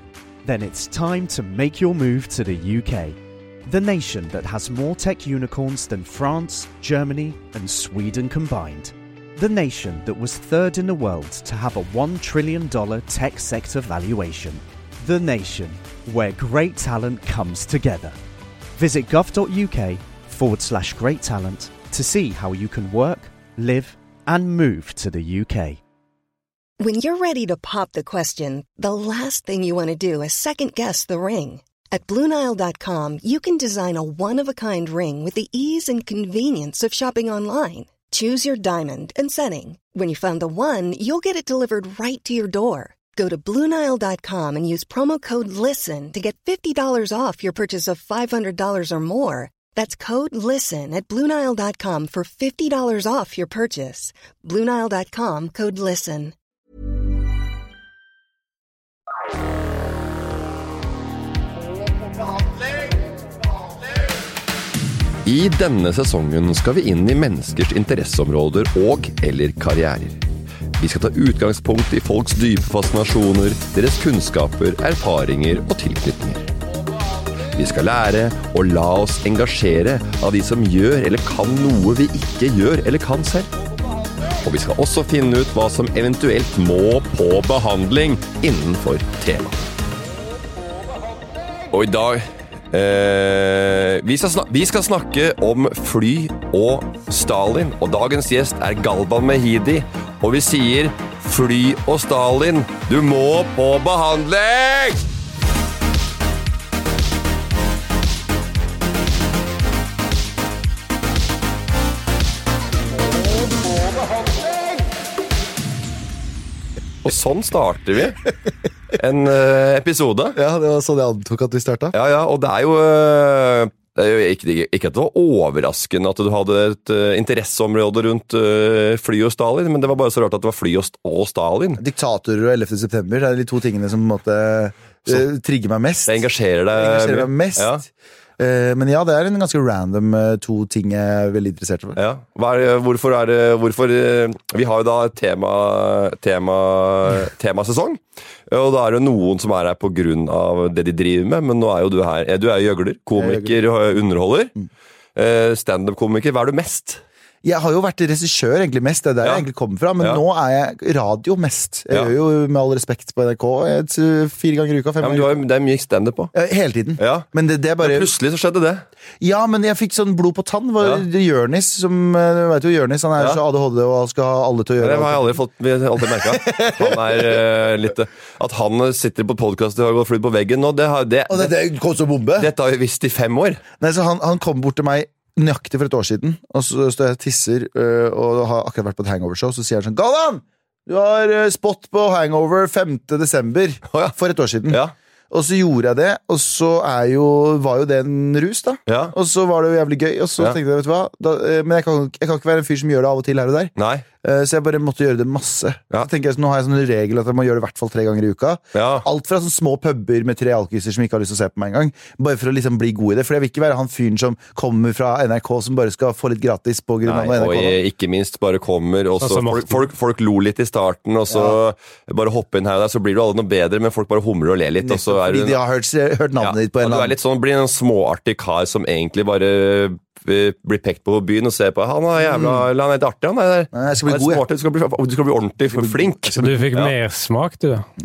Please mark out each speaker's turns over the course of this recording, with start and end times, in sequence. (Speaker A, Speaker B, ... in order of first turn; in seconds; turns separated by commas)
Speaker A: 0.4-18.1, Speaker A: 18.7-25.8, Speaker B: 26.8-56.3, Speaker C: 65.2-70.2, Speaker C: 70.8-76.5, Speaker C: 77.5-83.5, Speaker C: 84.4-89.6, Speaker C: 91.7-105.0, Speaker C: 117.0-118.2, Speaker C: 119.0-120.4, Speaker D: 120.3-121.9, Speaker C: 121.9-131.8, Speaker D: 131.8-137.8, Speaker C: 136.1-137.8, Speaker D: 138.4-142.0, Speaker C: 141.9-154.5, Speaker D: 153.2-153.6, Speaker C: 155.2-157.0, Speaker D: 157.4-165.3, Speaker C: 159.2-159.5, Speaker C: 165.0-166.3, Speaker D: 166.3-168.1, Speaker C: 167.0-167.3, Speaker C: 167.8-168.8, Speaker D: 169.2-175.4, Speaker C: 170.8-171.1, Speaker C: 174.8-181.5, Speaker D: 176.0-177.4, Speaker D: 181.3-182.5, Speaker C: 182.4-183.6, Speaker D: 183.8-217.8, Speaker C: 193.9-194.2, Speaker C: 194.7-194.9, Speaker C: 198.9-199.1, Speaker C: 203.8-204.0, Speaker C: 208.7-209.1, Speaker C: 217.0-225.6, Speaker E: 219.2-219.9, Speaker D: 221.3-221.6, Speaker D: 224.8-227.2, Speaker C: 226.4-236.9, Speaker D: 232.2-232.7, Speaker D: 233.7-234.4, Speaker D: 235.7-236.1, Speaker E: 236.3-237.8